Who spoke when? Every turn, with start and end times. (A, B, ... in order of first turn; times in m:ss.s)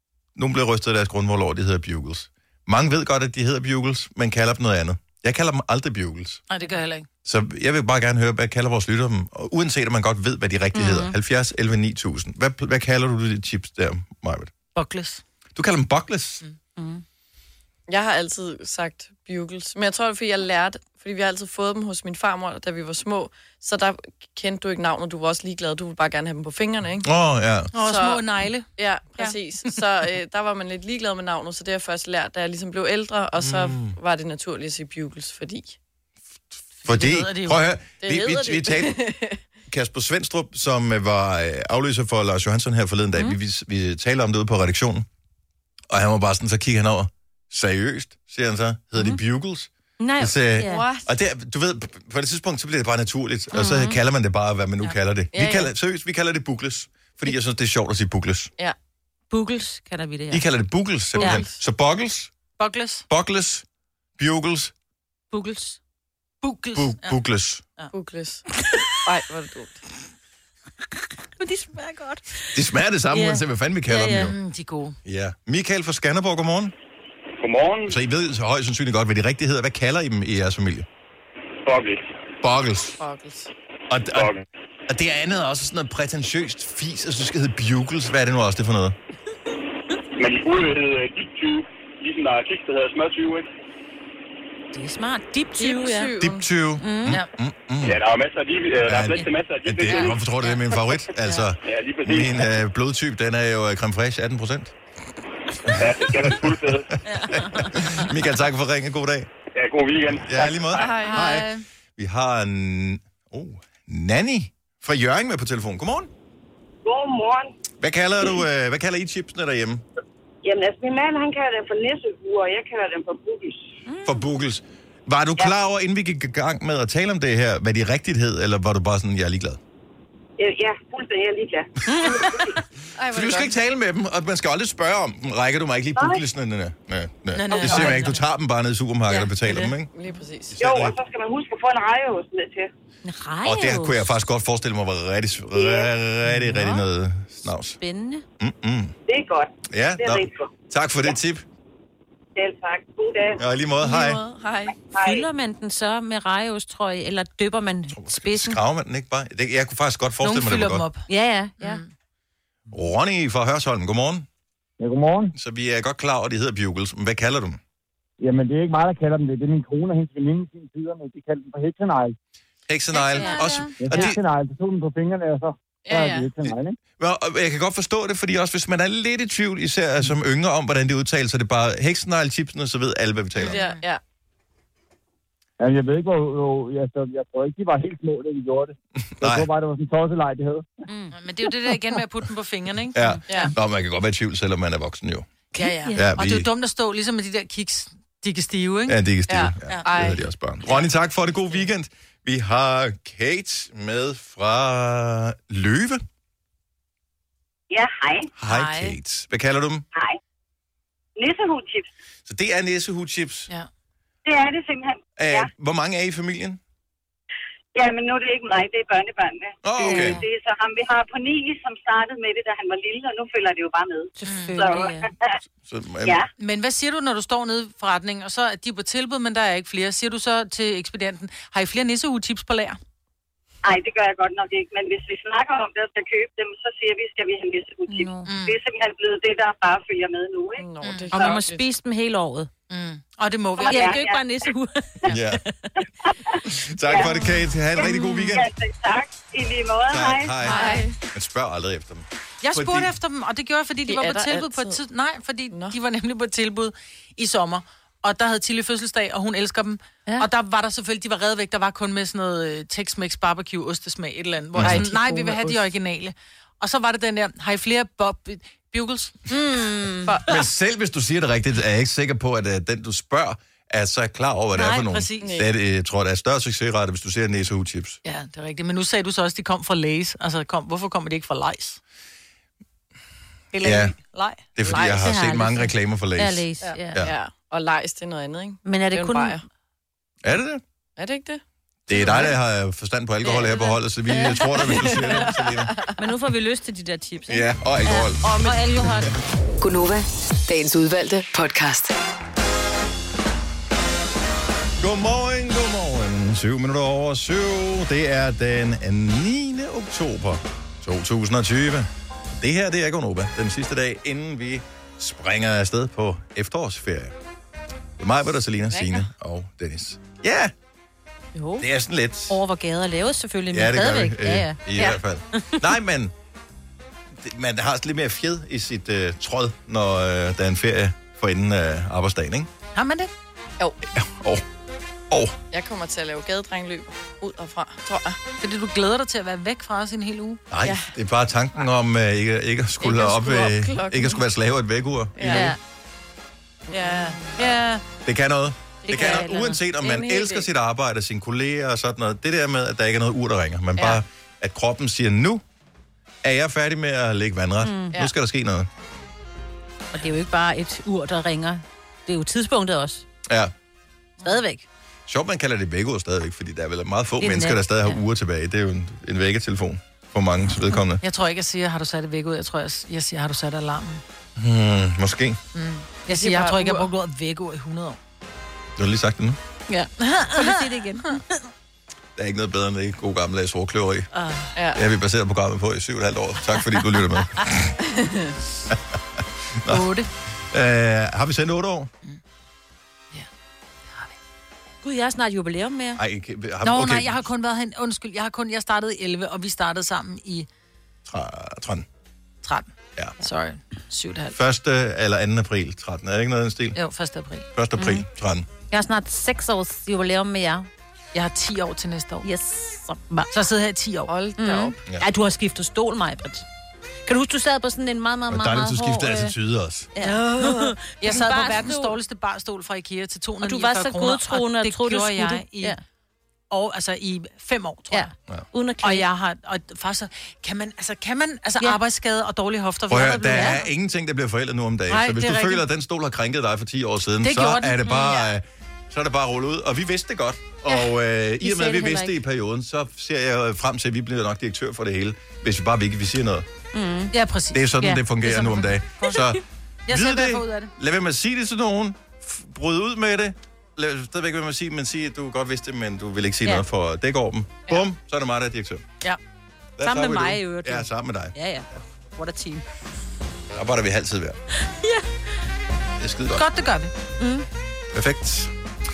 0:00.4-0:06.4 A
0:06.5-0:07.1 B
0:07.2-0:14.5 A
0:10.7-0:11.1 C
0:14.7-0:15.2 B
0:15.6-0:16.4 A
0:16.8-0:17.0 C
0:17.9-0:27.0 D
0:27.0-0:27.7 A
0:27.7-0:29.8 B
0:27.8-0:28.2 D
0:28.8-0:35.8 D
0:33.4-0:34.0 A
0:36.8-0:39.0 A
0:36.8-0:37.6 B
0:38.0-0:39.4 D
0:39.7-0:45.0 A
0:45.9-0:58.5 A
0:50.0-0:50.9 C
0:50.6-0:51.1 D
0:53.5-0:54.0 C
0:55.3-0:55.7 D
0:59.3-1:00.4 C
1:00.3-1:02.3 A
1:01.2-1:01.4 C
1:01.2-1:01.5 D
1:02.6-1:03.0 B
1:03.1-1:03.6 A
1:04.2-1:04.7 A
1:05.3-1:05.8 C
1:06.4-1:07.2 B
1:06.7-1:07.6 A
1:07.9-1:08.4 D
1:09.0-1:09.8 D
1:11.4-1:12.4 C
1:12.5-1:14.3 A
1:13.1-1:14.3 C
1:14.2-1:15.0 B
1:15.0-1:16.7 A
1:17.4-1:18.0 E
1:17.9-1:20.8 A
1:21.6-1:22.0 E
1:22.4-1:23.0 A
1:23.0-1:23.5 D
1:23.9-1:24.3 A
1:24.1-1:24.4 E
1:24.9-1:28.9 A
1:30.2-1:33.5 E
1:34.7-1:36.1 C
1:35.6-1:36.4 D
1:36.2-1:38.0 A
1:36.8-1:37.2 C
1:37.8-1:40.2 E
1:38.8-1:44.7 A
1:41.6-1:42.4 E
1:45.7-1:46.6 A
1:45.8-1:46.9 E
1:47.1-1:47.7 C
1:47.2-1:49.3 A
1:49.5-1:50.9 E
1:50.2-1:56.1 A
1:50.7-1:51.5 D
1:51.0-1:51.6 B
1:56.8-1:57.5 F
1:57.8-1:59.8 A
2:00.4-2:03.7 F
2:03.9-2:04.1 C
2:04.0-2:09.6 A
2:10.4-2:12.6 F
2:13.0-2:13.5 D
2:13.1-2:19.9 A
2:16.0-2:16.2 F
2:17.3-2:18.2 B
2:19.1-2:19.7 B
2:19.9-2:20.6 D
2:20.5-2:20.9 A
2:20.6-2:22.7 F
2:23.0-2:24.1 C
2:23.4-2:27.8 A
2:25.5-2:25.9 F
2:26.4-2:26.8 C
2:27.8-2:28.2 C
2:28.4-2:28.9 A
2:29.1-2:30.5 F
2:29.7-2:31.4 A
2:32.4-2:33.4 F
2:33.4-2:34.2 A
2:33.8-2:34.8 D
2:34.9-2:35.2 F
2:35.0-2:38.6 C
2:37.9-2:40.8 A
2:40.2-2:41.1 B
2:41.1-2:41.8 C
2:41.6-2:41.9 B
2:42.7-2:44.2 A
2:44.8-2:45.3 G
2:45.3-2:47.6 A
2:48.2-2:52.1 G
2:52.7-2:54.2 A
2:53.0-2:53.6 B
2:53.1-2:53.7 C
2:53.8-2:56.8 G
2:55.8-2:56.3 D
2:56.4-3:03.6 A
3:03.4-3:04.0 D
3:03.5-3:03.8 B
3:05.6-3:10.6 G
3:09.0-3:09.5 A
3:10.9-3:11.2 C
3:11.1-3:13.5 B
3:12.9-3:15.3 A
3:13.3-3:13.5 D
3:15.5-3:16.0 C
3:15.5-3:19.0 B
3:15.9-3:16.5 A
3:18.9-3:26.0 A
3:19.3-3:20.3 D
3:27.7-3:28.3 F
3:28.4-3:29.8 A
3:28.5-3:29.0 B
3:31.2-3:31.9 F
3:32.2-3:33.5 A
3:34.2-3:35.5 F
3:35.2-3:36.6 A
3:37.7-3:45.3 F
3:39.6-3:40.2 A
3:44.2-3:45.1 C
3:44.2-3:44.6 B
3:45.6-3:46.2 A
3:46.4-3:52.8 B
3:53.6-4:01.3 F
3:57.9-3:58.3 C
3:58.0-3:58.6 B
4:00.6-4:01.6 D
4:00.8-4:01.2 B
4:01.1-4:02.5 C
4:02.7-4:04.0 B
4:03.6-4:04.2 F
4:03.6-4:05.5 C
4:05.1-4:05.4 A
4:06.1-4:07.1 F
4:06.4-4:08.5 A
4:07.7-4:10.4 F
4:07.9-4:08.3 C
4:09.9-4:12.9 A
4:10.4-4:11.0 D
4:12.4-4:29.2 B
4:13.9-4:14.8 D
4:15.5-4:15.8 D
4:24.5-4:24.8 A
4:24.6-4:25.6 D
4:29.3-4:30.1 C
4:30.2-4:38.0 A
4:34.5-4:35.4 B
4:35.2-4:35.5 D
4:38.0-4:41.8 B
4:43.5-4:45.6 B
4:43.6-4:44.0 A
4:44.5-4:47.1 A
4:44.6-4:44.9 D
4:45.0-4:47.0 C
4:46.6-4:49.4 D
4:48.6-4:49.4 C
4:50.2-4:50.6 A
4:51.0-4:52.3 D
4:51.9-4:55.7 A
4:54.4-4:56.0 D
4:56.0-4:59.1 C
4:57.3-4:58.2 A
4:58.2-4:58.7 D
4:59.6-5:01.9 H
5:04.8-5:17.1 A
5:18.0-5:20.5 A
5:18.7-5:19.1 D
5:21.4-5:21.6 C
5:21.6-5:22.4 A
5:22.3-5:24.6 C
5:23.5-5:26.1 A
5:27.2-5:32.5 A
5:32.7-5:33.1 B
5:33.9-5:34.4 A
5:35.1-5:35.4 A
5:35.5-5:38.2 D
5:38.4-5:40.4 B
5:40.5-5:45.5 A
5:40.6-5:40.9 D
5:42.8-5:44.2 D
5:45.2-5:45.5 D
5:45.3-5:45.6 C
5:46.7-5:47.5 D
5:46.8-5:47.8 B
5:48.0-5:55.4 A
5:48.9-5:50.5 D
5:48.9-5:49.6 C
5:56.2-5:58.7 A
5:57.6-5:58.0 C
5:59.9-6:03.0 C
6:04.2-6:04.6 C
6:05.1-6:11.0 A
6:07.2-6:08.0 C
6:11.0-6:14.0 B
6:14.4-6:15.4 A
6:15.5-6:18.0 B
6:16.1-6:16.9 D
6:18.8-6:19.4 A
6:20.0-6:21.2 B
6:20.3-6:21.2 C
6:22.2-6:24.1 A
6:24.1-6:24.5 B
6:24.5-6:24.8 D
6:24.7-6:27.7 A
6:27.8-6:28.3 D
6:29.6-6:29.9 A
6:29.7-6:30.1 B
6:30.5-6:31.9 A
6:33.9-6:34.1 B
6:34.8-6:36.0 C
6:36.0-6:37.2 A
6:36.6-6:40.5 B
6:41.1-6:41.8 A
6:42.4-6:44.4 B
6:44.3-6:46.8 A
6:46.7-6:47.5 B
6:47.5-6:48.5 A
6:47.8-6:48.0 C
6:48.7-6:50.7 C
6:51.1-6:52.2 B
6:52.2-6:53.3 C
6:53.3-6:54.1 B
6:54.1-6:54.8 D
6:54.4-6:56.4 C
6:57.0-6:59.3 C
6:58.3-6:59.9 A
6:59.9-7:01.9 C
7:00.0-7:05.8 B
7:03.4-7:05.8 C
7:06.5-7:08.1 B
7:07.9-7:09.1 C
7:08.8-7:13.7 B
7:12.9-7:26.4 A
7:13.2-7:13.6 C
7:14.9-7:15.6 B
7:17.2-7:18.2 B
7:21.4-7:22.2 C
7:26.7-7:27.1 C
7:27.1-7:29.3 B
7:27.5-7:38.8 A
7:29.9-7:30.7 B
7:39.8-7:41.3 A
7:39.8-7:42.6 C
7:43.5-7:44.4 A
7:44.7-7:45.0 C
7:46.0-7:46.5 A
7:46.3-7:46.9 B
7:47.2-7:47.4 C
7:47.9-7:48.5 A